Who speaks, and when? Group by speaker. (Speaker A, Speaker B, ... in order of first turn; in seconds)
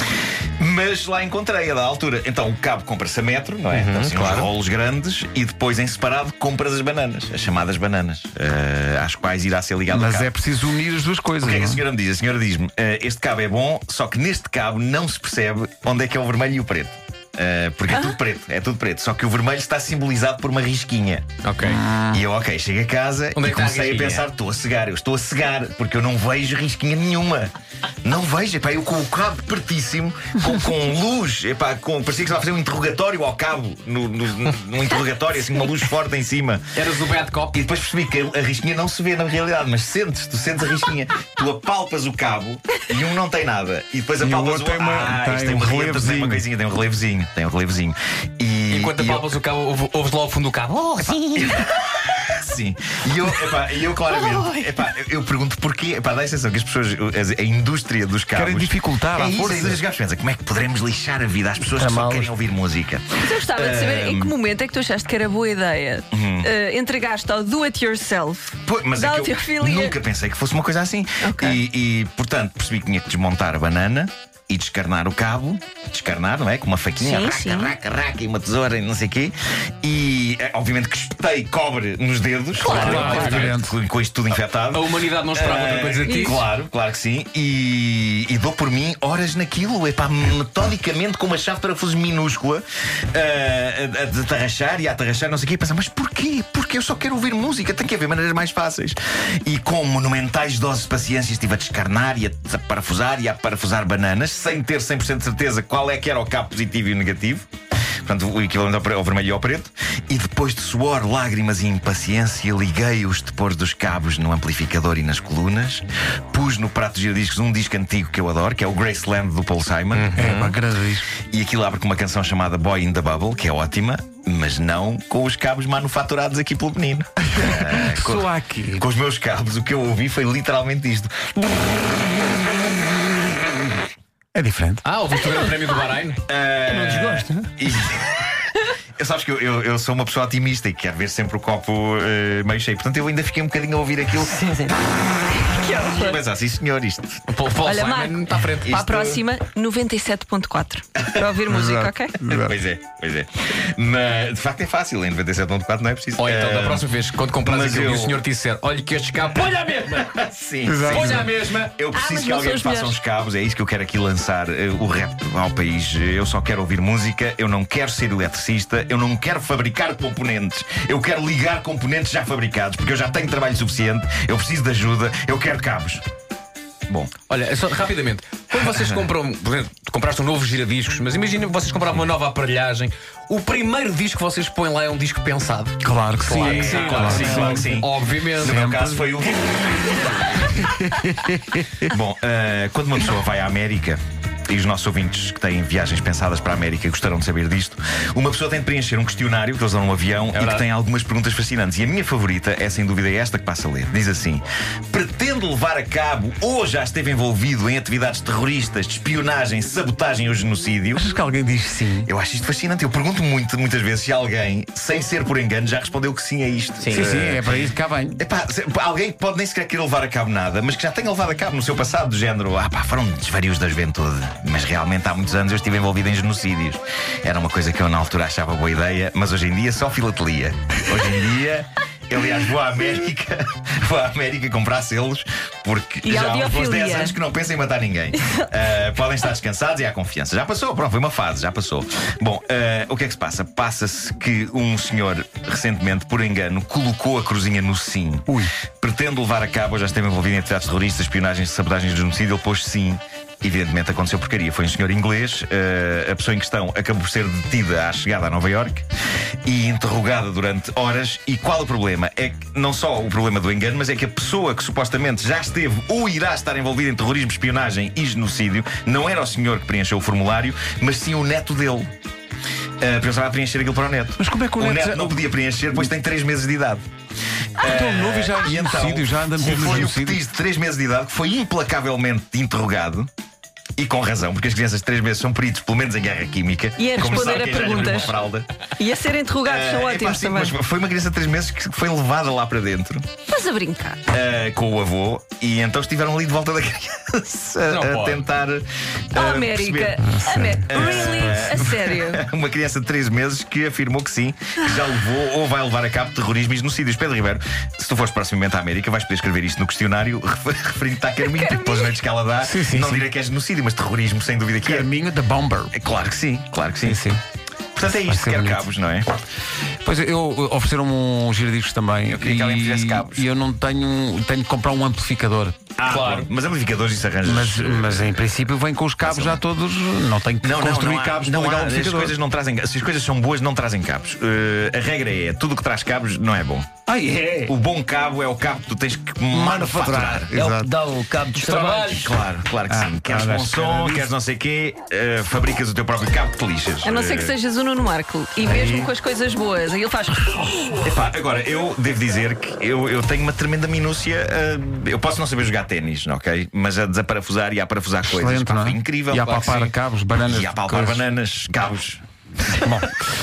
Speaker A: 0.6-10.3, 11.4-21.3, 22.1-36.7, 37.5-49.3, 51.2-64.3, 66.1-66.5, 68.7-107.5, 108.0-120.2, 121.2-131.6, 136.3-138.5, 139.0-147.2, 148.6-149.2, 151.0-151.2, 152.4-156.9, 157.4-158.2, 160.0-176.0, 176.9-177.1, 178.6-179.1, 186.4-189.6, 191.9-211.0, 212.1-258.9, 259.4-271.9, 272.8-276.8, 277.6-283.1, 283.8-288.5, 289.4-293.1, 294.1-300.0, 300.7-314.9, 315.7-317.1, 317.8-319.1, 322.1-323.3, 325.8-328.4, 329.0-329.4, 330.4-336.7, 337.5-340.3, 341.9-347.4, 350.8-359.6, 360.3-362.0
Speaker B: 3.7-4.5, 21.4-21.8, 23.4-24.3, 36.7-37.6, 48.7-51.5, 82.7-83.5, 84.7-86.5, 119.9-120.6, 134.8-136.2, 147.3-148.8, 156.2-160.2, 160.9-161.8, 177.3-188.6, 200.3-200.7, 297.7-298.2, 341.4-342.1, 359.2-359.7
Speaker C: 9.9-11.8, 21.6-22.2, 44.2-46.4, 58.3-59.8, 82.6-83.8, 120.2-121.1, 127.3-128.8, 134.3-134.8, 151.5-152.6, 160.7-161.4, 185.8-187.7, 188.4-189.1, 190.5-191.9, 211.0-212.1, 216.8-218.2, 248.3-248.5, 274.2-275.2, 277.6-280.2, 300.0-301.5, 312.4-313.1, 314.6-315.7, 316.8-317.2, 317.9-318.7, 319.8-326.3, 327.2-332.1, 336.9-337.5, 339.3-340.7, 342.7-344.1, 348.4-348.9, 358.1-361.1, 362.5-363.0
Speaker D: 54.1-54.7, 63.2-70.0, 71.2-71.6, 77.0-77.8, 82.6-83.0, 86.0-86.4, 145.2-146.2, 147.6-152.2, 161.9-163.0, 236.0-237.2, 286.8-288.2, 288.8-290.6, 293.3-294.0, 299.1-302.2, 311.2-312.0, 346.8-350.8
Speaker E: 61.8-62.3, 136.7-137.5, 144.3-144.7, 340.3-342.1